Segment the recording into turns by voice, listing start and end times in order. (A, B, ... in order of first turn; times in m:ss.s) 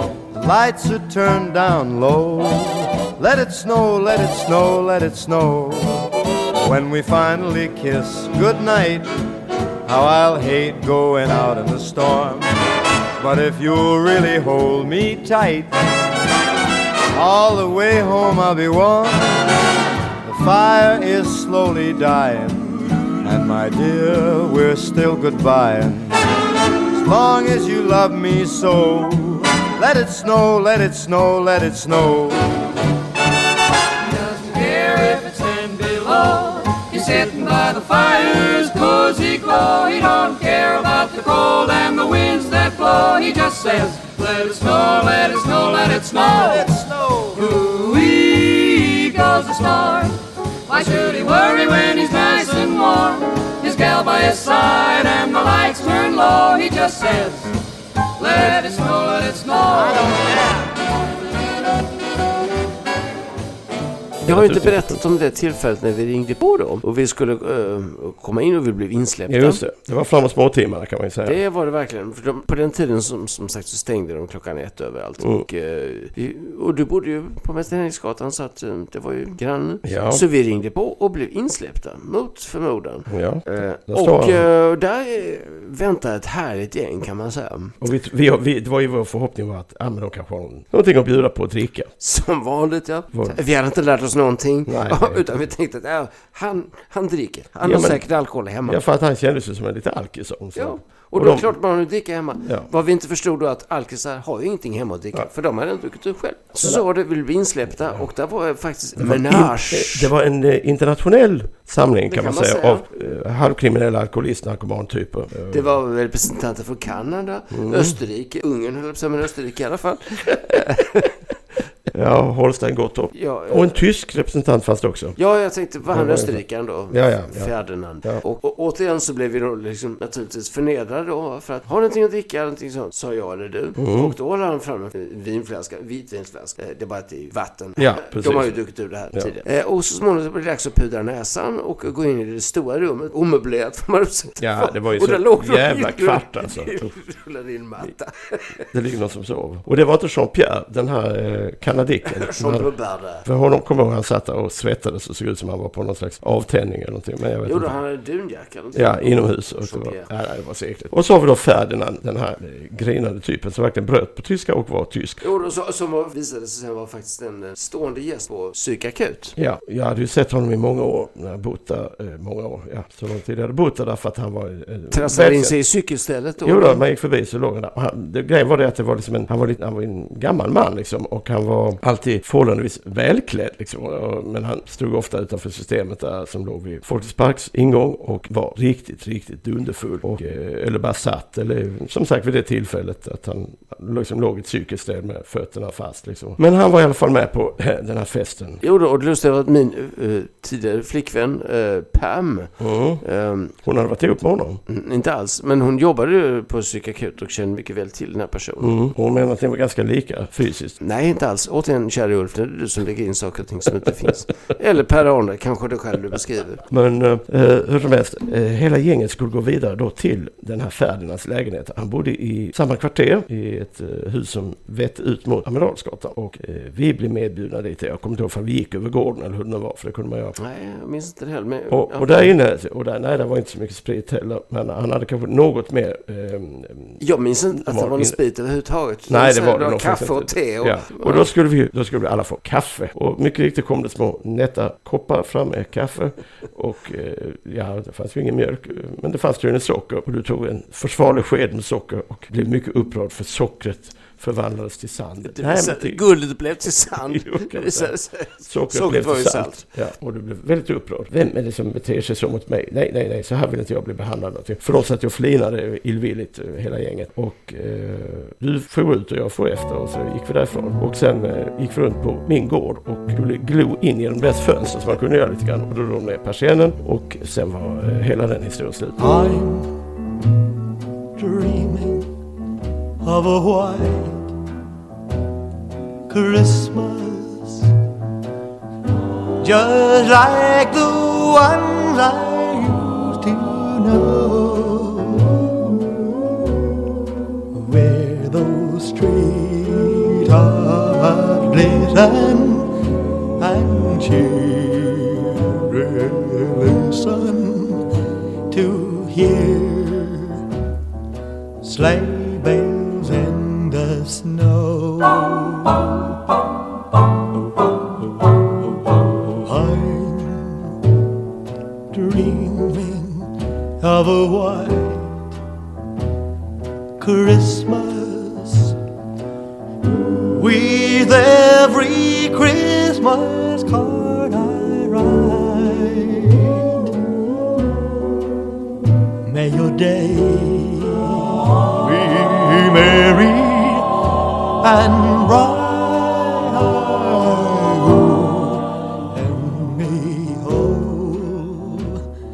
0:00.3-0:09.1 A
0:09.8-0:12.5 A
0:13.2-0:15.7 A
0:17.1-0:19.4 A
0:20.2-0:26.2 A
0:26.9-0:32.5 A
0:34.1-0:46.7 B
0:46.2-0:47.4 A
0:47.4-0:50.2 B
0:50.7-0:57.5 B
0:58.2-1:00.3 B
0:59.7-1:00.6 A
1:04.2-1:05.0 C
1:04.2-1:09.6 D
1:09.3-1:11.4 C
1:11.2-1:27.8 D
1:19.8-1:20.2 C
1:23.1-1:24.4 C
1:27.8-1:31.9 C
1:32.0-1:38.8 D
1:34.7-1:35.2 C
1:37.6-1:38.0 C
1:38.6-1:41.5 C
1:40.6-1:50.1 D
1:42.4-1:42.7 C
1:49.0-1:55.8 C
1:52.0-1:52.8 D
1:55.5-2:01.2 D
1:57.5-1:58.0 C
2:01.9-2:05.2 C
2:03.1-2:03.8 D
2:05.2-2:28.7 D
2:05.9-2:07.5 C
2:13.8-2:14.1 C
2:17.8-2:18.6 C
2:24.4-2:26.9 C
2:28.7-2:32.7 C
2:32.0-2:33.2 D
2:33.2-2:37.7 C
2:37.4-2:40.1 D
2:38.7-2:45.2 C
2:45.2-2:49.4 D
2:49.4-2:55.6 C
2:54.9-2:56.8 D
2:56.4-3:18.6 C
3:18.6-3:23.5 D
3:22.6-3:23.0 C
3:23.6-3:24.6 C
3:24.7-3:28.8 D
3:28.6-3:30.8 C
3:30.8-3:36.6 D
3:36.7-3:50.3 C
3:50.4-3:52.3 D
3:51.7-3:57.0 C
3:57.0-4:01.3 D
3:57.5-3:58.2 C
3:59.1-4:16.0 C
4:15.2-4:19.6 D
4:16.9-4:17.9 C
4:18.4-4:39.1 C
4:39.0-4:39.8 E
4:41.2-4:42.1 E
4:43.0-4:44.2 E
4:46.1-4:47.6 E
4:49.4-4:55.9 E
4:57.5-5:02.7 E
5:03.4-5:07.8 E
5:08.5-5:10.4 E
5:11.6-5:15.9 E
5:18.7-5:20.7 E
5:21.9-5:25.2 E
5:27.0-5:28.7 E
5:30.2-5:36.6 E
5:39.2-5:43.9 E
5:44.6-5:52.0 E